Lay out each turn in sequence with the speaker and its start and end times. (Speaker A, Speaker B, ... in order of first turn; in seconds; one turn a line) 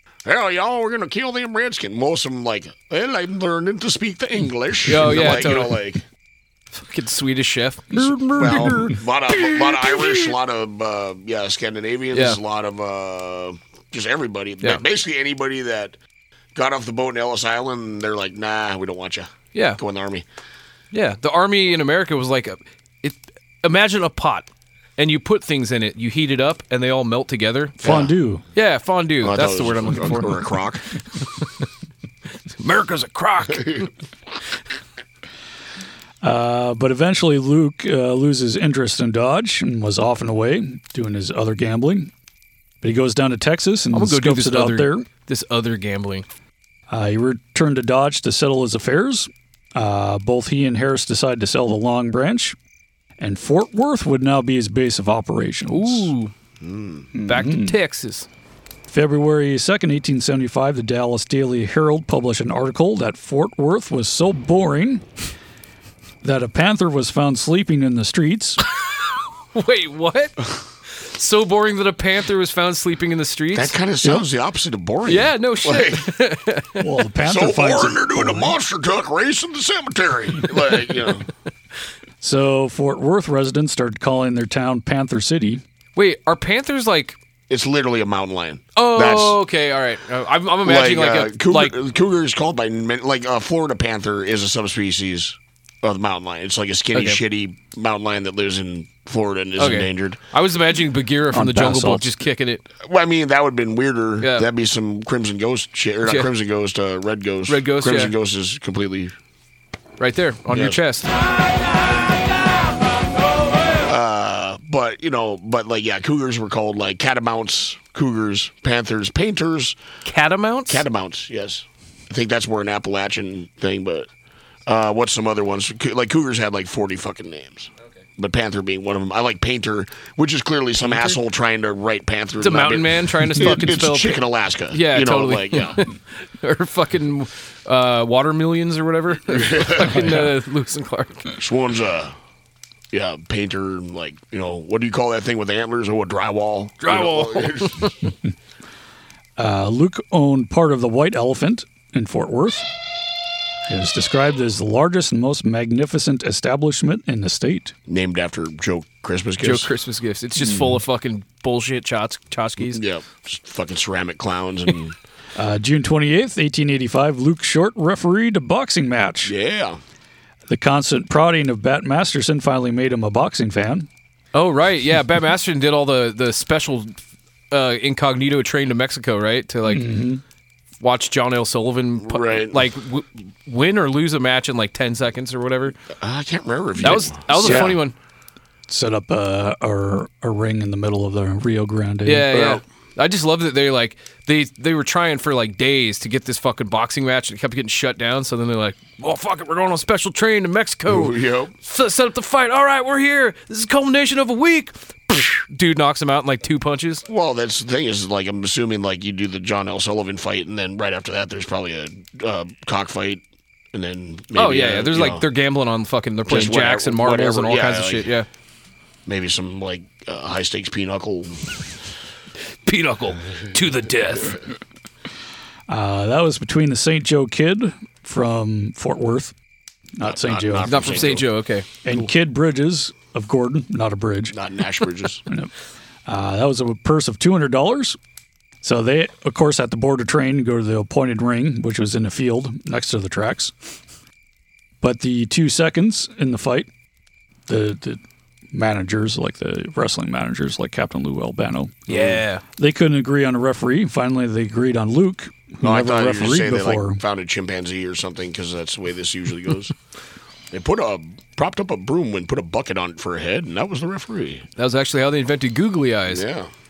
Speaker A: 0.2-6.0
Speaker B: 4.9-5.8
Speaker B: 6.7-10.3
Speaker C: 8.4-8.8
Speaker A: 8.4-16.0
Speaker B: 12.1-12.4
Speaker A: 16.5-20.3
Speaker B: 19.5-19.8
Speaker B: 20.9-27.8
Speaker A: 27.8-28.1
Speaker C: 27.8-28.4
Speaker B: 28.6-30.4
Speaker A: 29.2-30.9
Speaker B: 32.6-33.9
Speaker C: 36.2-42.1
Speaker C: 42.8-45.1
Speaker B: 43.9-46.3
Speaker C: 46.9-52.6
Speaker C: 53.2-56.1
Speaker B: 55.7-56.3
Speaker A: 56.6-57.1
Speaker C: 57.1-57.8
Speaker B: 57.2-58.3
Speaker C: 58.9-65.1
Speaker C: 66.2-68.6
Speaker B: 69.5-73.8
Speaker A: 73.5-76.1
Speaker B: 75.1-76.8
Speaker C: 76.8-78.5
Speaker A: 77.2-81.3
Speaker C: 82.2-85.6
Speaker B: 86.0-87.2
Speaker A: 87.5-89.4
Speaker B: 88.8-91.8
Speaker A: 90.6-100.2
Speaker B: 96.9-97.2
Speaker B: 99.6-102.7
Speaker C: 101.3-102.1
Speaker A: 102.8-109.1
Speaker B: 104.2-104.5
Speaker B: 106.0-106.3
Speaker B: 107.5-108.1
Speaker B: 110.0-111.1
Speaker A: 110.5-110.8
Speaker A: 113.8-119.8
Speaker B: 120.0-120.8
Speaker A: 120.7-124.1
Speaker A: 124.7-135.8
Speaker B: 132.4-141.3
Speaker A: 139.3-140.2
Speaker A: 141.4-142.2
Speaker A: 142.9-148.0
Speaker B: 146.8-148.0
Speaker C: 149.4-152.7
Speaker C: 153.7-157.7
Speaker A: 157.9-159.7
Speaker B: 159.4-162.8
Speaker C: 160.4-160.8
Speaker A: 162.6-165.0
Speaker C: 165.4-169.3
Speaker A: 169.2-169.8
Speaker C: 170.5-173.9
Speaker B: 174.3-177.0
Speaker B: 177.5-179.9
Speaker C: 179.7-180.2
Speaker B: 180.8-185.8
Speaker A: 182.0-182.6
Speaker A: 185.9-187.8
Speaker B: 186.8-187.9
Speaker C: 187.4-187.8
Speaker C: 188.7-192.4
Speaker B: 192.1-207.0
Speaker A: 192.3-192.6
Speaker A: 200.9-201.5
Speaker A: 207.1-215.3
Speaker B: 214.3-218.3
Speaker A: 216.3-218.1
Speaker A: 219.1-221.5
Speaker B: 222.6-224.4
Speaker C: 225.7-229.3
Speaker C: 230.0-231.0
Speaker A: 230.0-231.3
Speaker B: 230.7-231.7
Speaker C: 231.8-234.4
Speaker A: 234.3-235.2
Speaker C: 236.1-238.0
Speaker C: 238.6-243.5
Speaker C: 244.8-246.7
Speaker C: 247.5-248.0
Speaker C: 248.5-251.9
Speaker B: 251.9-252.4
Speaker A: 251.9-252.2
Speaker C: 252.6-257.0
Speaker A: 255.6-259.8
Speaker A: 260.5-264.5
Speaker B: 264.6-266.2
Speaker A: 266.1-266.5